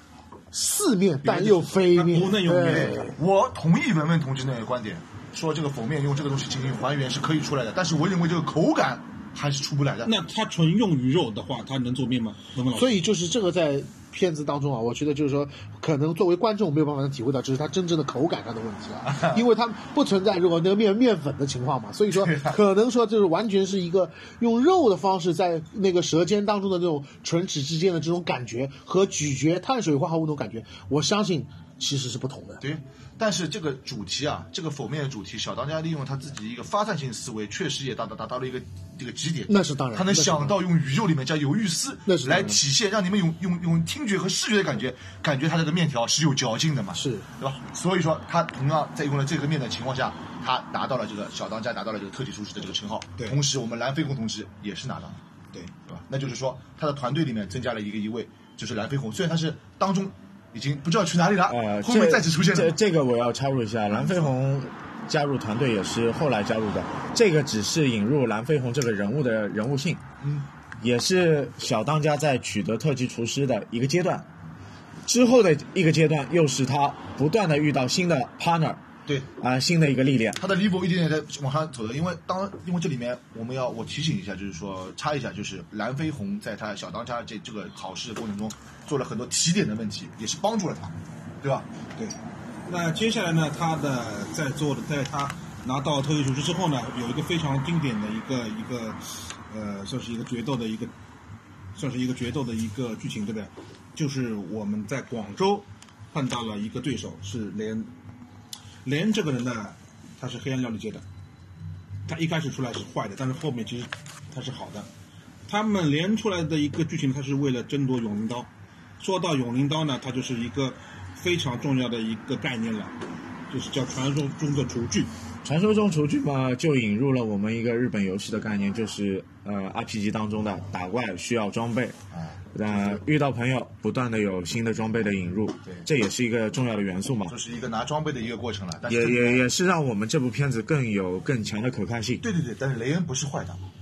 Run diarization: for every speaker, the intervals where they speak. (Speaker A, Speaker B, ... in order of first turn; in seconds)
Speaker A: 0.5-3.1, 12.8-32.6, 39.5-40.6, 42.1-42.6, 47.0-47.2
Speaker B: 1.2-3.1, 10.1-13.0, 92.7-100.9, 101.8-107.9, 108.8-111.0, 112.1-114.9, 115.5-123.0, 123.5-125.1
Speaker C: 2.6-10.1, 19.1-19.4, 22.1-22.6, 32.6-55.2, 55.9-62.8, 63.9-64.3, 80.4-91.7, 132.1-133.0, 137.3-139.5, 142.2-143.6
Speaker D: 61.5-70.0, 70.8-74.3, 75.1-78.8, 79.4-80.4, 125.4-132.0, 132.5-137.3, 138.9-142.2